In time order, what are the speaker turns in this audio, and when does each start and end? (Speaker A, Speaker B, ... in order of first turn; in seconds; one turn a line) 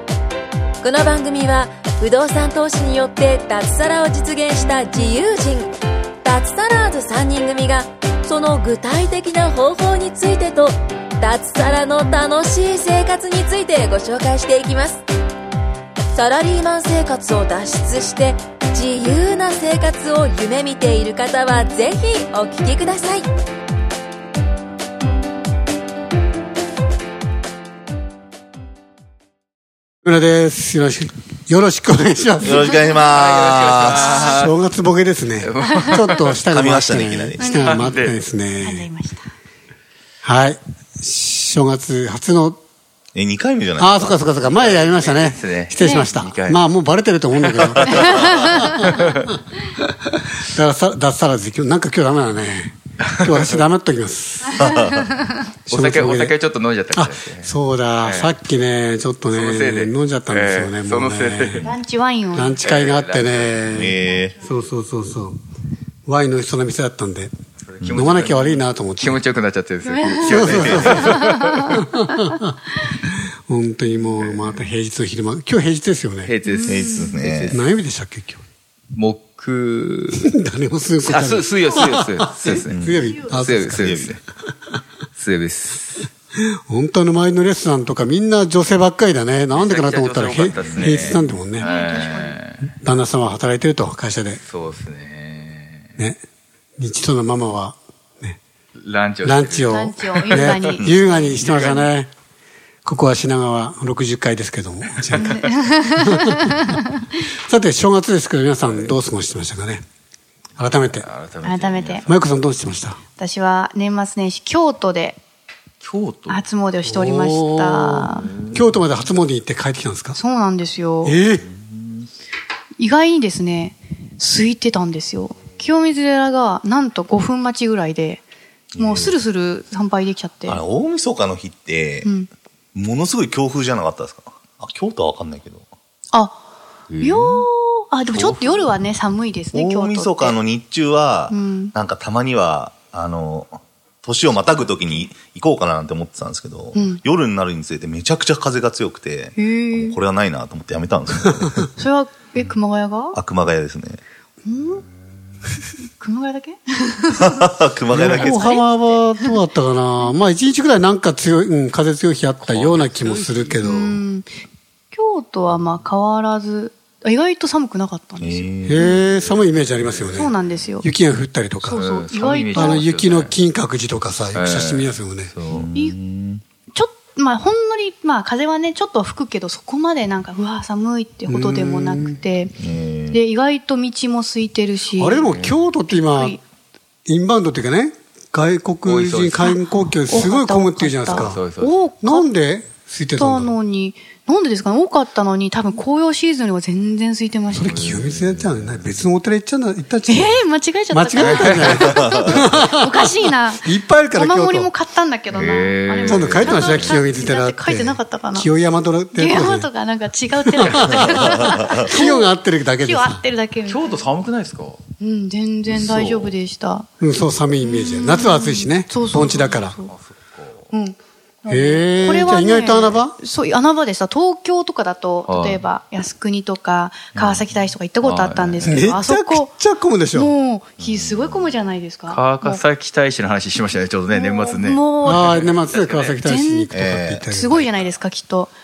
Speaker A: 0.8-15.0
Speaker A: 16.1-23.3
Speaker B: 30.0-32.8
Speaker C: 32.4-34.3
Speaker D: 33.0-34.6
Speaker E: 33.9-34.4
Speaker B: 34.2-38.9
Speaker D: 35.4-36.4
Speaker C: 36.5-37.4
Speaker E: 37.4-38.0
Speaker D: 37.5-38.2
Speaker E: 38.6-39.3
Speaker B: 40.2-42.6
Speaker C: 43.1-44.2
Speaker B: 43.8-54.8
Speaker D: 44.4-46.6
Speaker E: 45.8-46.1
Speaker D: 47.5-49.4
Speaker E: 47.9-49.0
Speaker D: 53.1-53.4
Speaker C: 54.6-55.0
Speaker B: 55.7-56.3
Speaker D: 55.7-58.4
Speaker B: 56.9-61.7
Speaker D: 59.3-61.7
Speaker E: 61.6-62.6
Speaker B: 62.3-65.4
Speaker D: 62.4-63.7
Speaker C: 63.6-64.4
Speaker B: 66.0-67.3
Speaker D: 67.6-71.8
Speaker C: 67.8-68.2
Speaker B: 67.9-69.2
Speaker E: 69.8-71.3
Speaker B: 70.2-76.3
Speaker C: 70.4-71.0
Speaker D: 74.0-74.5
Speaker D: 76.2-77.7
Speaker E: 76.4-77.2
Speaker C: 76.7-77.6
Speaker B: 77.5-78.4
Speaker D: 78.9-80.3
Speaker B: 80.1-84.2
Speaker D: 81.0-84.2
Speaker E: 81.7-83.5
Speaker C: 82.7-83.1
Speaker C: 83.8-84.2
Speaker D: 85.1-86.1
Speaker B: 86.4-91.7
Speaker D: 89.5-92.7
Speaker C: 90.6-91.2
Speaker E: 91.6-92.4
Speaker B: 92.8-94.4
Speaker D: 94.4-96.0
Speaker B: 96.8-98.4
Speaker D: 98.7-101.9
Speaker B: 99.2-102.1
Speaker E: 99.6-101.7
Speaker B: 102.8-105.4
Speaker D: 105.0-105.5
Speaker E: 105.2-106.9
Speaker B: 106.0-106.6
Speaker B: 107.3-109.8
Speaker D: 108.6-109.0
Speaker B: 110.6-111.1
Speaker D: 110.6-112.1
Speaker E: 111.4-112.0
Speaker B: 112.0-113.0
Speaker E: 113.2-115.2
Speaker D: 115.8-116.4
Speaker E: 116.3-118.3
Speaker B: 116.8-120.2
Speaker D: 118.2-118.8
Speaker E: 120.1-121.2
Speaker B: 121.0-121.5
Speaker D: 121.5-122.0
Speaker E: 122.8-128.2
Speaker C: 128.7-129.1
Speaker E: 128.8-130.6
Speaker C: 130.5-132.1
Speaker E: 132.0-132.3
Speaker C: 132.7-135.7
Speaker E: 136.1-136.4
Speaker D: 136.9-137.4
Speaker E: 137.0-140.4
Speaker D: 138.1-138.7
Speaker C: 139.5-151.7
Speaker E: 141.3-141.7
Speaker E: 146.7-147.0
Speaker E: 149.3-150.0
Speaker E: 151.8-153.2
Speaker C: 153.1-154.0
Speaker E: 154.4-154.8
Speaker E: 156.0-157.3
Speaker C: 157.2-158.3
Speaker B: 157.9-164.0
Speaker E: 158.0-159.3
Speaker D: 162.4-163.8
Speaker E: 163.6-164.4
Speaker E: 164.9-169.0
Speaker C: 168.2-168.8
Speaker B: 168.6-171.8
Speaker D: 168.8-170.4
Speaker E: 170.1-170.9
Speaker E: 171.6-172.9
Speaker D: 171.7-173.3
Speaker B: 172.5-175.3
Speaker D: 174.3-175.7
Speaker C: 175.5-176.4
Speaker E: 176.7-182.6
Speaker B: 181.3-182.2
Speaker C: 182.6-183.2
Speaker E: 183.1-185.3
Speaker B: 184.9-186.4
Speaker D: 185.2-185.6
Speaker E: 185.9-186.4
Speaker B: 187.1-191.4
Speaker D: 188.8-189.6
Speaker E: 189.4-192.3
Speaker D: 191.1-191.7
Speaker B: 192.0-193.6
Speaker E: 193.2-197.9
Speaker B: 197.5-204.7
Speaker D: 197.5-199.0
Speaker E: 200.1-208.5
Speaker D: 201.2-202.1
Speaker D: 205.3-207.2
Speaker B: 206.0-209.7
Speaker E: 209.1-214.1
Speaker B: 210.3-213.2
Speaker D: 213.6-214.8
Speaker E: 215.0-216.9
Speaker D: 215.7-216.3
Speaker B: 217.0-219.8
Speaker E: 217.6-219.9
Speaker D: 219.8-220.7
Speaker E: 220.7-229.5
Speaker B: 221.5-223.2
Speaker D: 222.0-223.0
Speaker D: 225.2-225.6
Speaker D: 227.1-227.5
Speaker D: 228.0-228.8
Speaker B: 228.6-230.3
Speaker E: 230.1-232.6
Speaker D: 230.8-231.5
Speaker D: 232.1-236.2
Speaker E: 234.1-235.6
Speaker B: 235.0-237.7
Speaker E: 236.2-236.7
Speaker C: 236.7-237.2
Speaker E: 237.3-238.5